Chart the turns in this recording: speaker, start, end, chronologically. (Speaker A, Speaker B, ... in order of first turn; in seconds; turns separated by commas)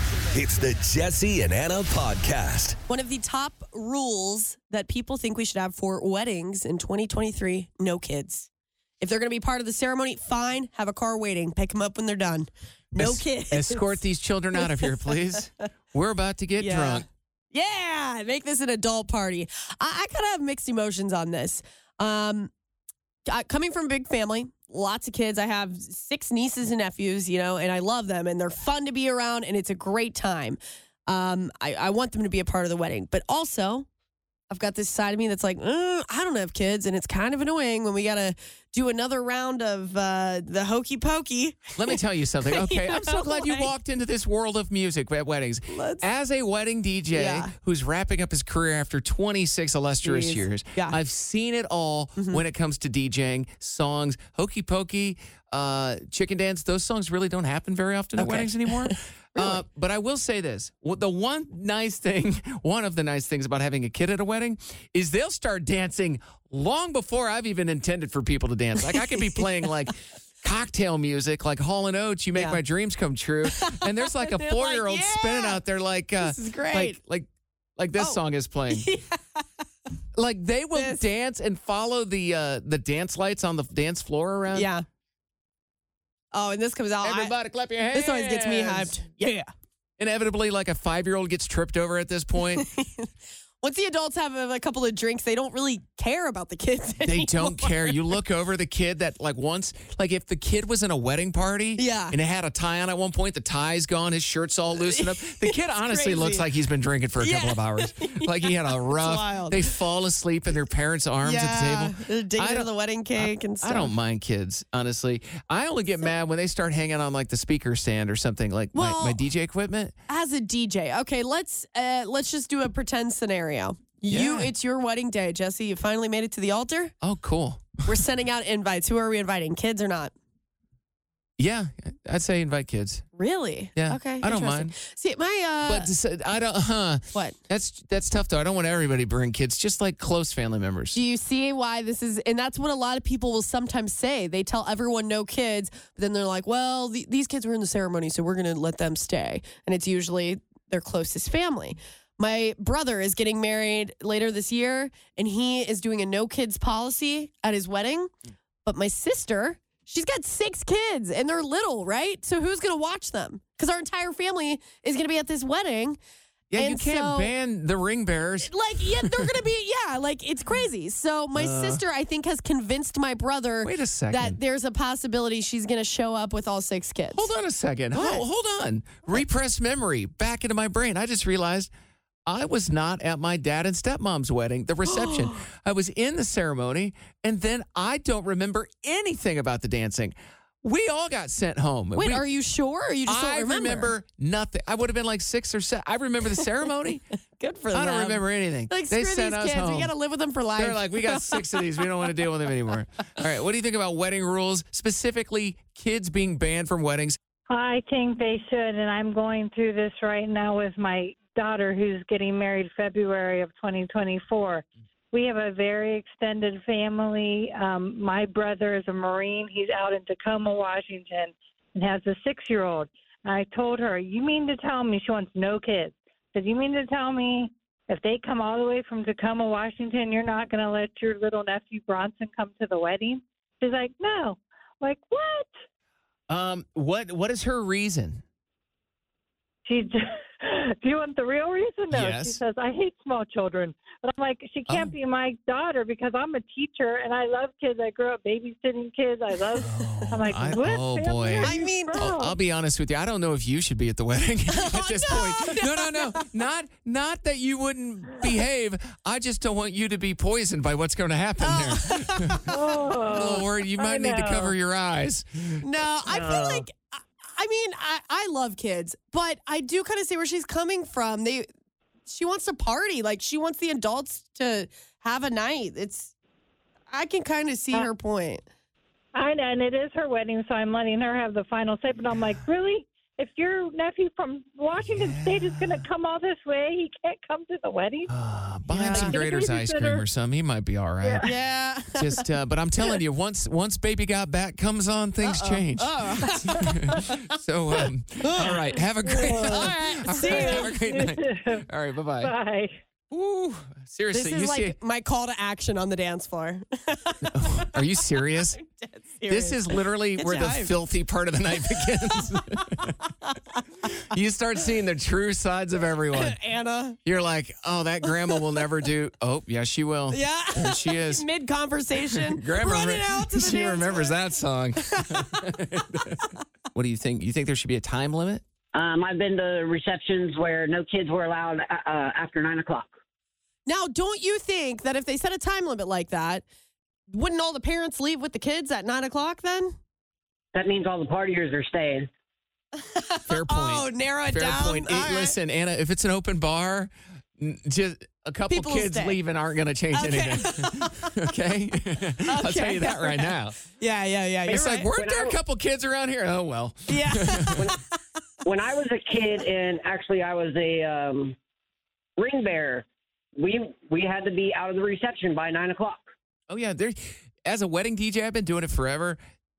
Speaker A: 0.3-2.8, Speaker B: 2.9-8.5, Speaker B: 9.0-14.0, Speaker C: 12.9-17.1, Speaker B: 14.5-15.4, Speaker B: 16.6-22.5, Speaker B: 23.3-33.9, Speaker B: 34.5-43.7, Speaker C: 41.8-78.9, Speaker B: 45.7-46.1, Speaker B: 47.1-47.5, Speaker B: 50.0-51.0, Speaker B: 52.2-52.4, Speaker B: 58.2-59.6, Speaker B: 68.9-69.4, Speaker B: 73.5-75.6, Speaker B: 76.2-77.0, Speaker B: 78.0-79.5, Speaker C: 80.2-84.7, Speaker B: 80.8-81.0, Speaker B: 84.5-84.8, Speaker B: 86.3-87.3, Speaker C: 87.0-89.1, Speaker B: 87.9-89.5, Speaker C: 90.0-92.7, Speaker B: 92.6-98.1, Speaker C: 97.0-120.0, Speaker B: 101.8-102.2, Speaker B: 104.8-106.5, Speaker B: 107.2-109.7, Speaker B: 111.2-113.9, Speaker B: 118.7-119.2, Speaker B: 120.1-126.9, Speaker C: 124.1-124.5, Speaker C: 127.0-128.0, Speaker B: 127.9-130.1, Speaker C: 131.4-133.1, Speaker B: 133.2-135.9, Speaker C: 133.8-134.8, Speaker C: 135.7-141.0, Speaker B: 140.9-158.1, Speaker B: 158.7-166.0, Speaker C: 166.5-169.3, Speaker B: 166.6-167.3, Speaker B: 168.4-177.3, Speaker C: 171.3-171.8, Speaker C: 173.6-174.4, Speaker C: 177.1-181.7, Speaker B: 177.9-178.2, Speaker C: 182.3-192.2, Speaker B: 184.9-185.4, Speaker B: 191.9-193.9, Speaker C: 193.1-197.0, Speaker B: 197.4-202.3, Speaker C: 197.7-199.9, Speaker C: 200.6-207.2, Speaker D: 207.5-235.5, Speaker C: 236.3-238.2, Speaker D: 239.7-252.3, Speaker C: 241.9-242.4, Speaker C: 244.7-244.9, Speaker C: 249.6-265.6, Speaker B: 249.8-250.1, Speaker B: 251.4-252.1, Speaker B: 254.5-256.2, Speaker B: 261.4-262.7, Speaker D: 262.5-264.5, Speaker B: 265.6-271.5, Speaker B: 272.1-276.1, Speaker B: 276.9-278.4, Speaker D: 279.1-288.1, Speaker C: 284.9-285.8, Speaker C: 288.1-291.3, Speaker B: 288.7-289.2, Speaker D: 288.8-290.1, Speaker B: 291.1-292.2, Speaker C: 291.9-302.3, Speaker B: 295.2-297.1, Speaker B: 298.2-298.6, Speaker D: 299.1-301.6, Speaker B: 299.4-300.7, Speaker D: 302.2-302.7, Speaker C: 303.1-304.8, Speaker B: 304.1-310.7, Speaker C: 307.3-308.6, Speaker C: 309.3-313.0, Speaker B: 311.7-313.6, Speaker C: 313.8-316.4, Speaker B: 316.1-317.0, Speaker C: 317.1-321.2, Speaker B: 318.1-318.4, Speaker B: 320.1-324.2, Speaker C: 322.1-328.4, Speaker B: 324.9-325.6, Speaker E: 328.7-332.9, Speaker B: 333.7-336.4, Speaker B: 337.1-339.8, Speaker E: 340.5-342.1, Speaker B: 342.8-345.4, Speaker C: 343.3-353.6, Speaker B: 348.5-349.2, Speaker B: 349.9-351.3, Speaker B: 352.2-354.9, Speaker C: 354.5-357.7, Speaker E: 354.9-355.4, Speaker B: 356.9-357.8, Speaker E: 358.4-361.4, Speaker E: 362.2-366.1, Speaker C: 366.5-369.2